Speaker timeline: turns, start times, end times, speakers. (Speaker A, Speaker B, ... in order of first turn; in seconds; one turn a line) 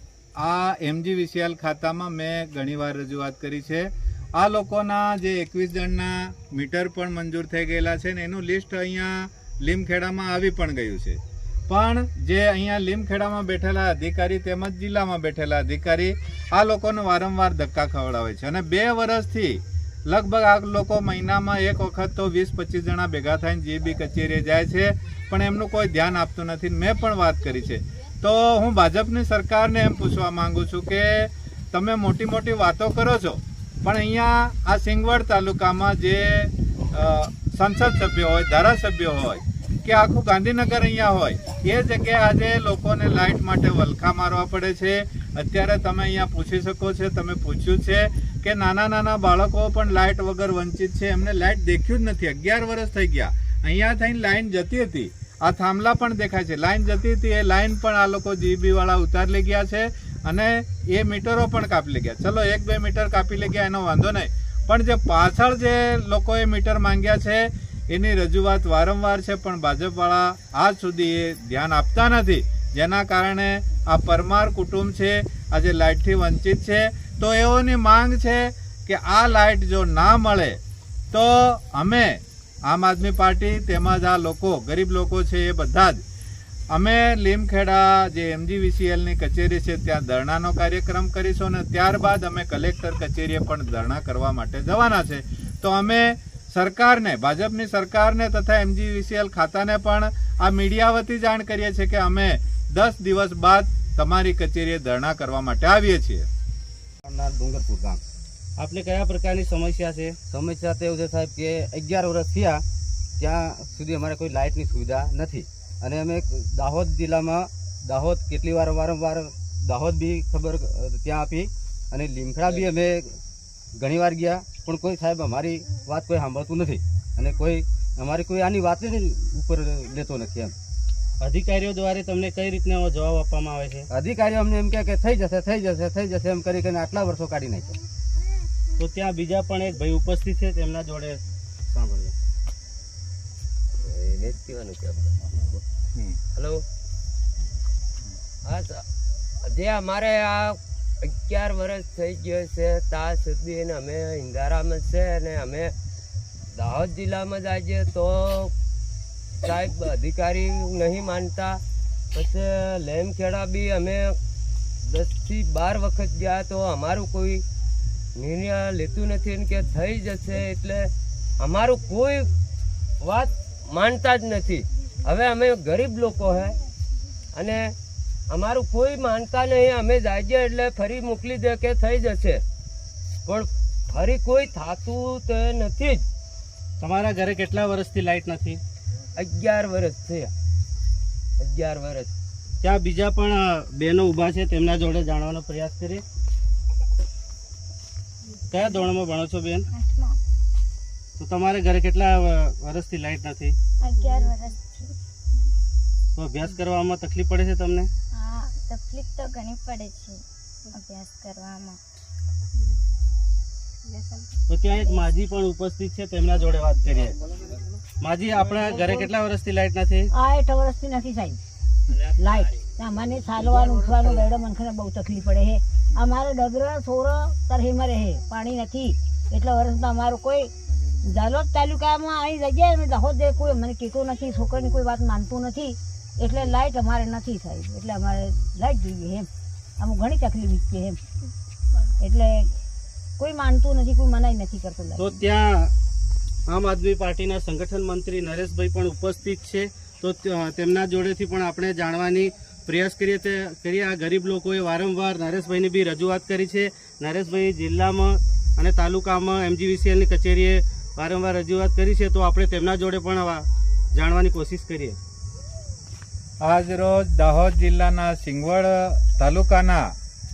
Speaker A: 0.4-80.6
Speaker A: 81.1-86.0
Speaker A: 86.7-106.3
Speaker B: 107.0-108.0
Speaker C: 108.6-110.2
Speaker B: 110.3-112.6
Speaker B: 113.2-123.2
Speaker B: 123.8-130.6
Speaker C: 131.2-133.8
Speaker B: 133.9-137.8
Speaker C: 138.8-141.2
Speaker C: 141.7-142.1
Speaker D: 143.8-145.6
Speaker D: 146.4-146.6
Speaker D: 148.4-148.8
Speaker D: 149.4-155.7
Speaker D: 156.5-158.5
Speaker D: 159.4-161.6
Speaker D: 162.1-164.1
Speaker D: 164.8-167.4
Speaker D: 168.2-172.3
Speaker D: 173.0-176.6
Speaker D: 177.3-177.7
Speaker D: 178.3-182.4
Speaker D: 183.2-186.0
Speaker C: 186.8-188.6
Speaker D: 189.2-190.3
Speaker D: 191.4-192.1
Speaker C: 192.6-196.0
Speaker C: 198.5-199.7
Speaker E: 199.8-200.2
Speaker C: 201.2-203.6
Speaker E: 203.8-204.9
Speaker C: 206.2-207.9
Speaker E: 208.1-211.8
Speaker C: 214.5-217.1
Speaker C: 218.0-220.1
Speaker F: 220.1-221.4
Speaker F: 222.1-230.5
Speaker F: 231.1-239.3
Speaker F: 239.8-241.0
Speaker F: 242.0-242.5
Speaker F: 243.2-245.2
Speaker C: 245.0-245.7
Speaker C: 246.5-265.0
Speaker A: 266.4-269.9